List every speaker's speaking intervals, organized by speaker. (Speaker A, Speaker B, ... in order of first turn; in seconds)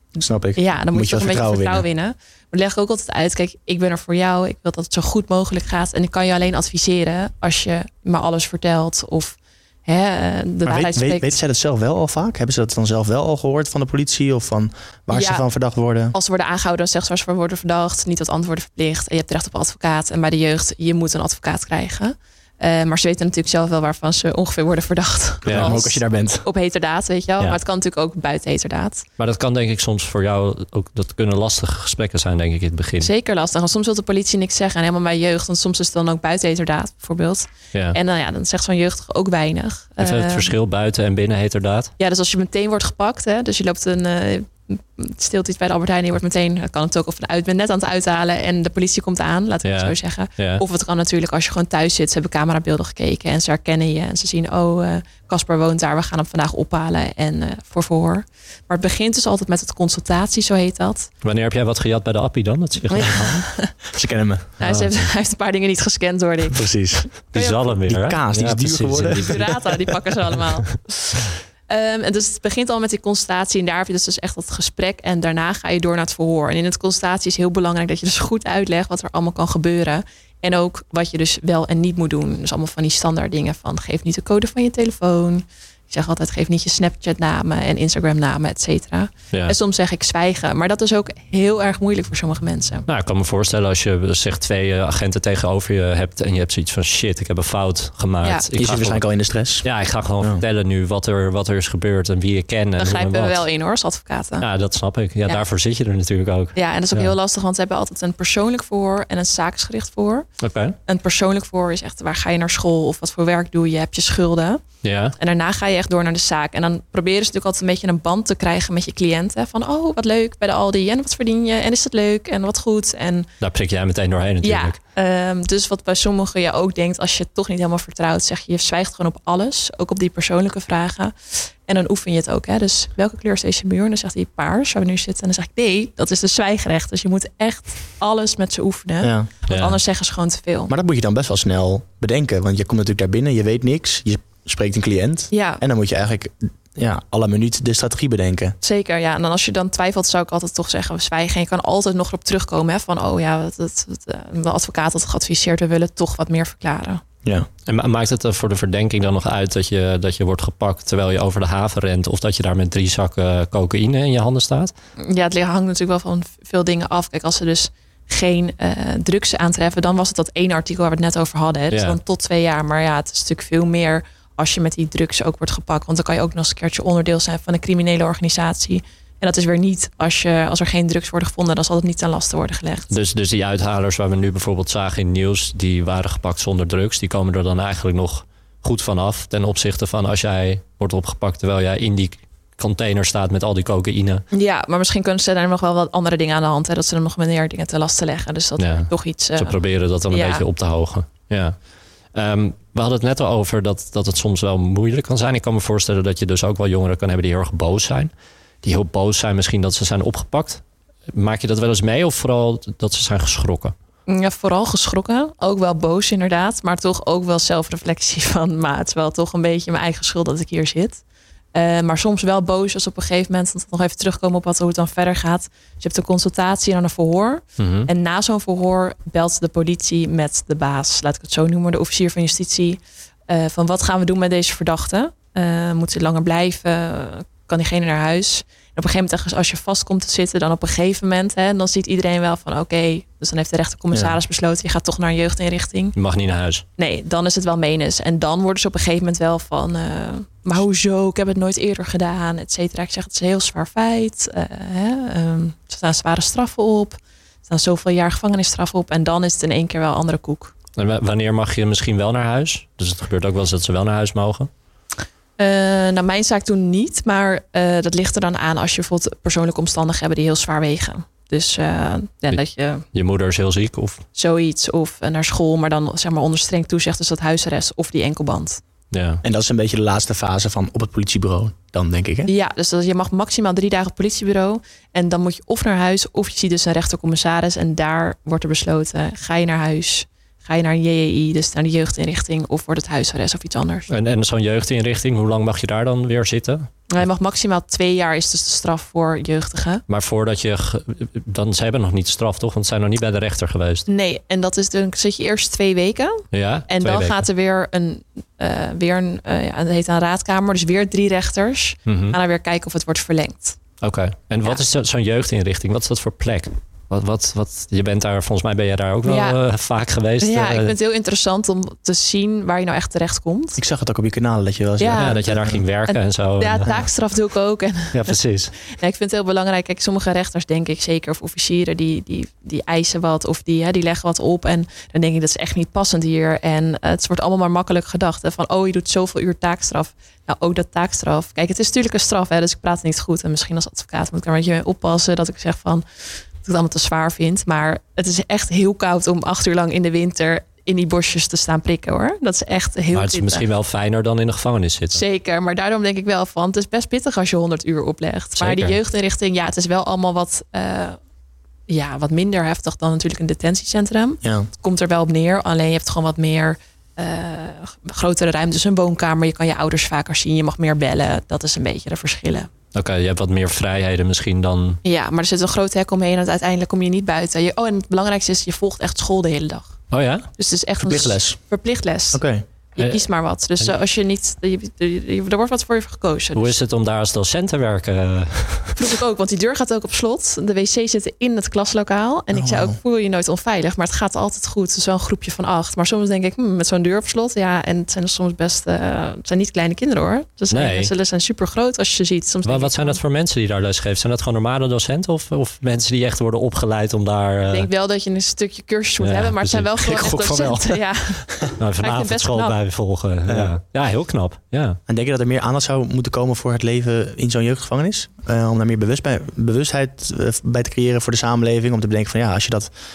Speaker A: 0.2-1.8, 10.6-16.1, 25.4-26.4, 63.9-64.5, 66.5-67.1, 67.8-69.9, 98.5-99.6, 139.0-139.3, 140.7-148.6, 243.9-244.2, 279.2-282.3, 323.6-325.6, 364.2-364.5, 380.8-381.4, 382.1-382.4, 392.3-392.8, 409.8-411.5, 413.3-413.5, 414.9-422.7
Speaker B: 0.6-11.3, 15.1-15.4, 16.1-29.1, 33.0-40.5, 42.0-61.1, 62.9-63.7, 64.6-67.7, 69.2-92.8, 102.8-104.5, 106.5-110.3, 110.8-114.6, 115.2-123.3, 124.4-140.7, 145.3-145.6, 148.6-157.0, 165.0-182.9, 194.3-200.4, 214.1-221.0, 221.5-245.9, 246.8-260.5, 265.4-272.9, 274.1-278.6, 282.3-293.9, 296.9-299.8, 303.9-313.6, 319.0-319.4, 320.2-323.6, 324.8-325.2, 325.9-345.8, 346.4-353.4, 354.9-361.0, 361.7-372.5, 374.8-382.2, 382.7-386.5, 388.8-403.0, 407.5-412.6
Speaker C: 25.4-25.8, 29.2-33.1, 37.7-38.0, 40.0-41.9, 49.6-50.6, 61.2-63.5, 64.6-65.0, 67.3-69.6, 92.9-99.0, 99.6-103.4, 104.4-107.1, 110.4-110.8, 114.8-115.2, 123.4-124.8, 139.5-139.8, 157.7-164.7, 171.7-172.0, 182.9-194.2, 198.6-201.6, 202.1-208.1, 208.6-213.7, 227.6-227.9, 245.9-246.6, 260.8-264.5, 272.9-274.0, 278.9-279.2, 293.9-296.7, 299.9-303.9, 306.3-307.2, 311.9-312.2, 313.8-320.7, 325.0-326.7, 327.9-328.5, 352.9-355.0, 358.4-358.8, 372.7-374.8, 379.9-380.3, 382.8-383.1, 386.3-388.8, 400.5-400.9, 402.4-407.7, 409.0-410.0, 411.6-414.8